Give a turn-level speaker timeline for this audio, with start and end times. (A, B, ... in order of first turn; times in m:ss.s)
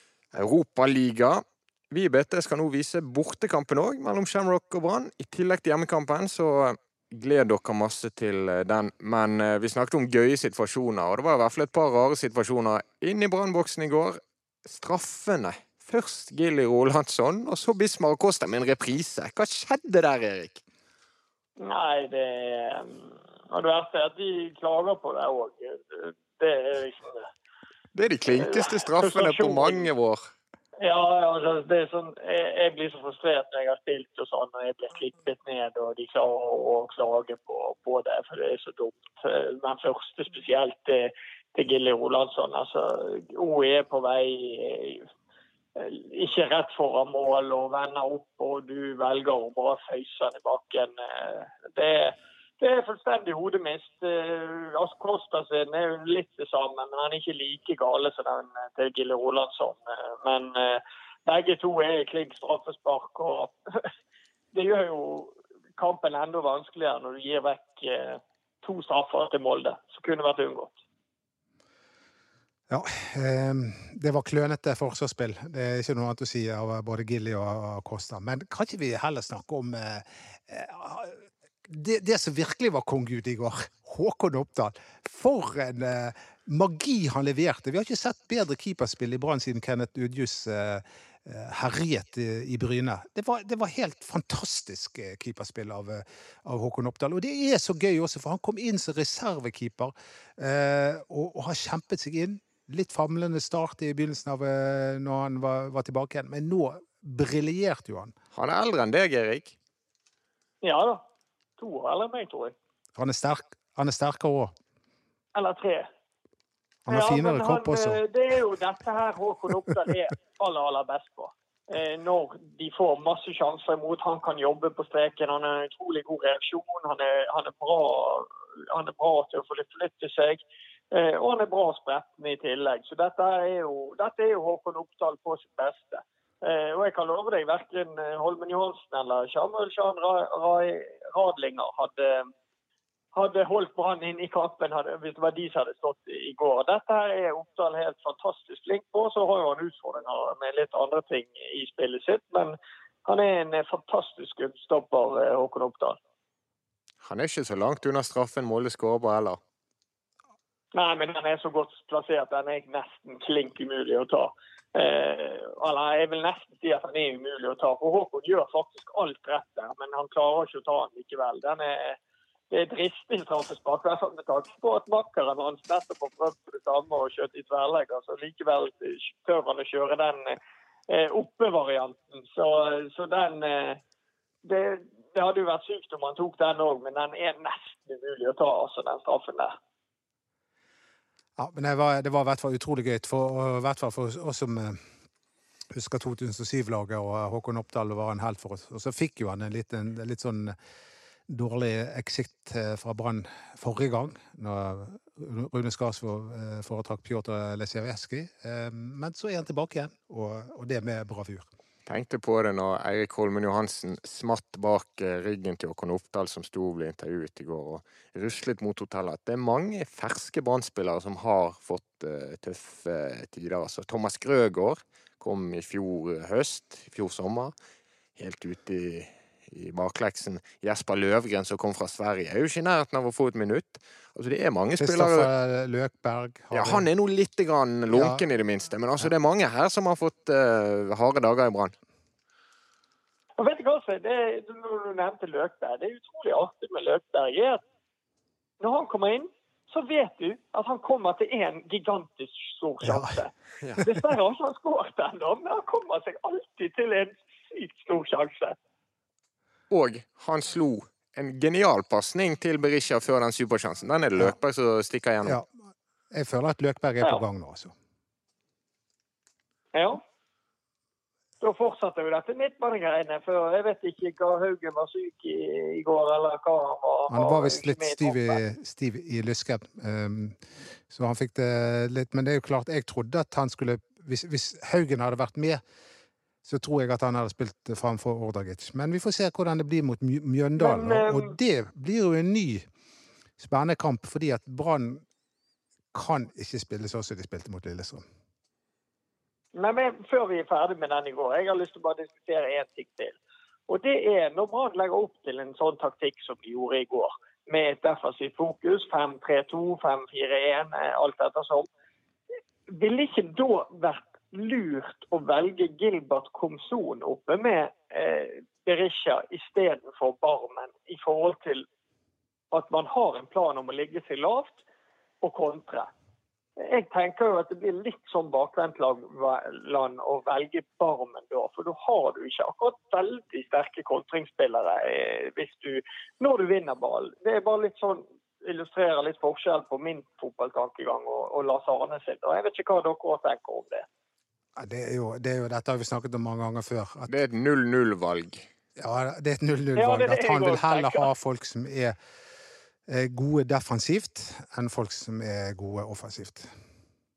0:00.3-0:20.6 A
0:21.6-0:27.2 B
0:27.9-0:30.3 A
0:28.4-0:29.9 B
0:30.8-0:45.1 B
0:45.8-1:03.9 B
1:04.5-1:10.8 B
1:12.7-1:48.1 C
1:48.3-1:49.6 A
1:50.6-1:51.0 B
1:51.6-1:52.6 B
1:53.0-1:54.5 C
1:55.4-1:55.9 B
1:56.9-1:58.0 C
1:56.9-2:22.3 B
2:23.1-2:36.0 B
2:37.0-2:39.4 A
2:40.7-2:52.0 B
2:52.5-3:00.4 B
3:00.9-3:03.8 B
3:04.4-3:09.6 B
3:11.4-3:14.8 C
3:15.7-3:20.6 C
3:21.3-3:31.5 C
3:31.9-3:47.5 A
3:48.2-3:55.3 A
3:54.8-3:56.9 C
3:56.5-4:01.7 A
3:57.9-3:58.2 C
4:03.4-4:07.6 B
4:08.6-4:18.6 B
4:12.8-4:13.1 C
4:19.7-4:25.4 A
4:26.1-4:27.7 C
4:29.7-4:30.0 B
4:31.4-4:38.4 B
4:37.1-4:45.6 C
4:46.4-4:52.7 C
4:50.6-4:51.4 B
4:53.4-4:55.0 C
4:55.9-4:58.0 C
4:59.6-5:03.2 B
5:03.7-5:11.7 B
5:12.7-5:21.6 B
5:22.5-5:24.6 B
5:25.2-5:25.9 B
5:26.6-5:43.9 B
5:44.6-5:47.1 C
5:47.1-5:48.5 A
5:48.8-5:52.0 C
5:49.7-5:51.1 B
5:52.9-5:56.5 C